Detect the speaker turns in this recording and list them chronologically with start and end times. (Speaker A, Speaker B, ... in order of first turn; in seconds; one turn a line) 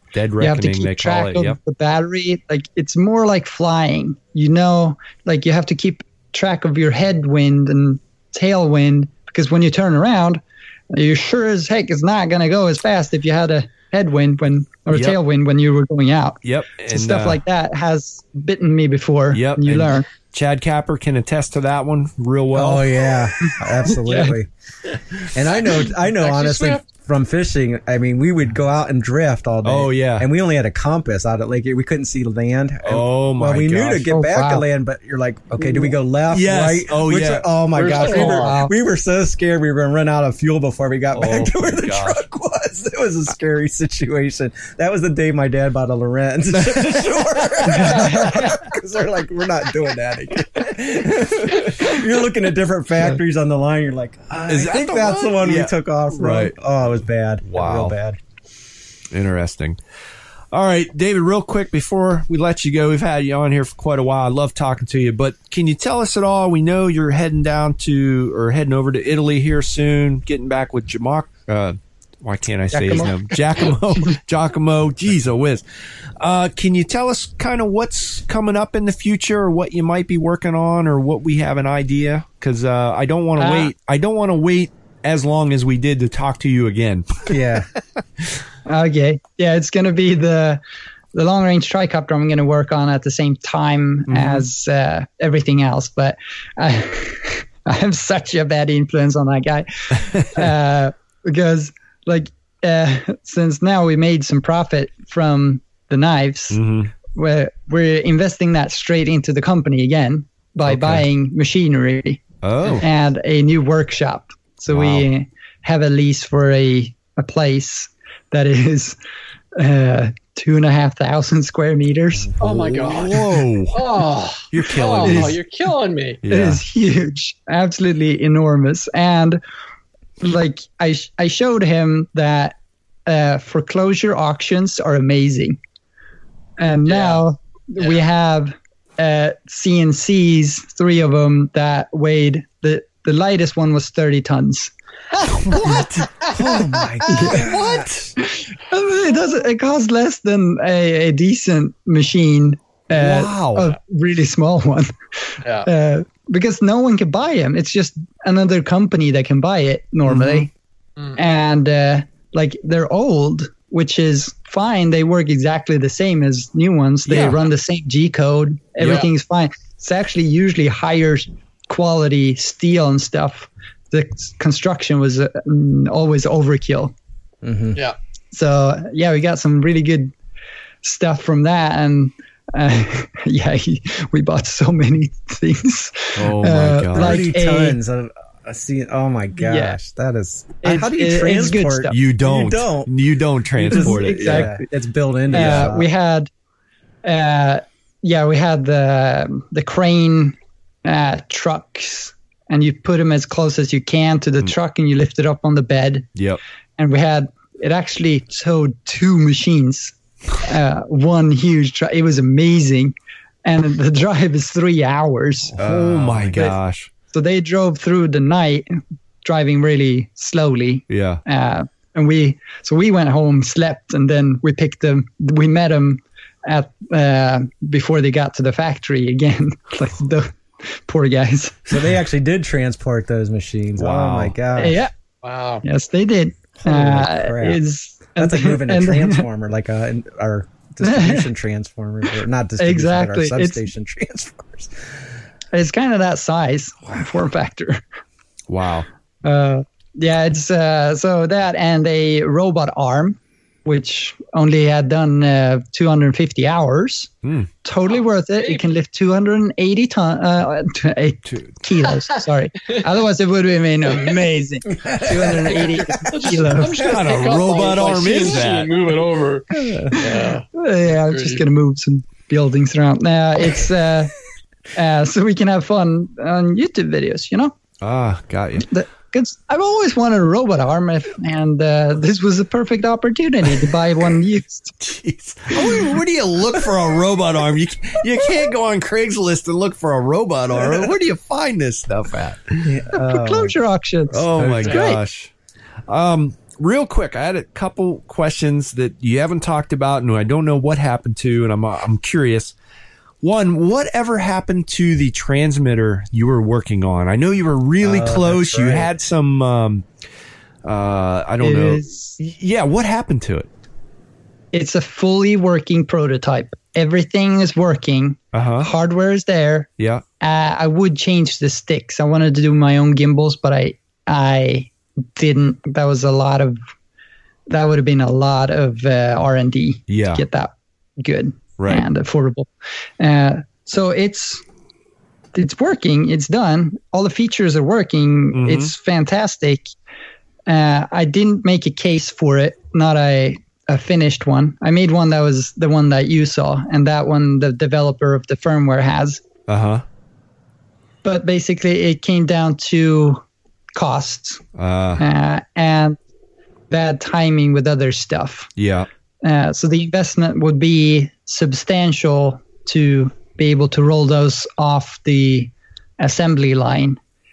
Speaker A: 0.1-1.6
Speaker B: 0.4-10.4
Speaker B: 10.9-20.1
Speaker A: 14.9-15.2
Speaker A: 16.4-17.4
Speaker A: 19.3-23.0
Speaker C: 22.5-24.5
Speaker B: 23.4-24.4
Speaker C: 25.3-58.2
Speaker D: 26.2-26.8
Speaker A: 29.6-30.3
Speaker A: 32.8-34.1
Speaker B: 34.1-34.6
Speaker A: 36.3-37.5
Speaker D: 37.7-38.6
Speaker B: 37.9-38.7
Speaker A: 41.1-42.2
Speaker A: 46.5-47.9
Speaker B: 47.7-48.7
Speaker A: 54.5-56.5
Speaker A: 57.4-58.0
Speaker A: 59.1-59.8
Speaker A: 60.5-75.6
Speaker B: 72.7-73.7
Speaker A: 76.2-87.3
Speaker B: 83.4-83.7
Speaker C: 87.3-87.7
Speaker B: 88.7-90.6
Speaker B: 91.1-112.2
Speaker A: 94.1-94.5
Speaker A: 106.5-106.9
Speaker A: 110.7-111.0
Speaker A: 112.4-112.9
Speaker B: 112.8-119.0
Speaker A: 114.7-115.1
Speaker B: 119.6-122.3
Speaker D: 122.4-126.2
Speaker A: 122.4-123.8
Speaker C: 124.5-125.4
Speaker A: 126.2-126.6
Speaker B: 126.3-129.4
Speaker B: 130.2-135.6
Speaker B: 136.6-144.7
Speaker D: 136.8-137.2
Speaker A: 145.3-146.6
Speaker B: 145.6-145.8
Speaker C: 145.6-147.9
Speaker B: 147.1-147.5
Speaker A: 147.2-148.1
Speaker B: 148.2-154.9
Speaker A: 152.9-153.7
Speaker D: 155.4-155.7
Speaker B: 155.6-160.5
Speaker A: 160.1-160.4
Speaker B: 161.2-176.9
Speaker A: 167.1-167.4
Speaker D: 168.8-169.1
Speaker C: 177.4-177.8
Speaker B: 178.3-180.1
Speaker B: 180.8-187.8
Speaker A: 186.2-187.3
Speaker C: 186.9-192.9
Speaker B: 189.4-189.8
Speaker B: 190.6-192.0
Speaker A: 191.9-194.5
Speaker B: 193.6-194.6
Speaker C: 193.7-195.9
Speaker A: 195.3-195.7
Speaker B: 195.3-196.3
Speaker B: 197.1-206.1
Speaker B: 206.8-212.9
Speaker B: 213.4-215.6
Speaker A: 215.6-216.9
Speaker C: 215.6-216.4
Speaker B: 217.1-218.7
Speaker B: 219.2-231.7
Speaker A: 220.9-221.2
Speaker C: 231.7-234.8
Speaker A: 233.8-234.3
Speaker B: 234.6-234.9
Speaker D: 235.2-235.6
Speaker B: 235.6-239.2
Speaker C: 236.6-237.6
Speaker C: 238.2-244.7
Speaker B: 240.8-241.3
Speaker B: 242.6-243.7
Speaker B: 245.5-247.8
Speaker A: 248.5-248.9
Speaker B: 249.2-257.1
Speaker A: 257.2-257.5
Speaker B: 257.6-266.7
Speaker D: 257.9-258.7
Speaker C: 264.7-266.8
Speaker D: 266.1-270.5
Speaker A: 266.6-268.7
Speaker C: 269.5-269.9
Speaker B: 269.9-274.1
Speaker D: 271.1-271.4
Speaker B: 274.8-277.5
Speaker A: 277.8-278.7
Speaker B: 278.6-284.7
Speaker A: 284.8-292.7
Speaker C: 292.6-293.6
Speaker B: 292.9-295.0
Speaker A: 294.1-295.3
Speaker C: 294.3-294.8
Speaker A: 295.9-302.5
Speaker A: 303.2-309.9
Speaker C: 307.8-308.9
Speaker A: 310.6-313.5
Speaker B: 311.4-312.2
Speaker B: 314.5-319.7
Speaker A: 318.3-318.7
Speaker B: 320.2-326.6
Speaker B: 327.5-332.5
Speaker A: 329.9-330.2
Speaker A: 331.6-331.9
Speaker B: 333.0-334.4
Speaker B: 335.4-339.7
Speaker A: 338.3-338.7
Speaker B: 340.5-349.2
Speaker A: 349.5-349.8
Speaker B: 351.0-353.2
Speaker B: 353.8-354.4
Speaker A: 354.6-355.0
Speaker B: 355.0-356.0
Speaker B: 356.7-358.5
Speaker A: 358.6-358.9
Speaker B: 359.2-367.0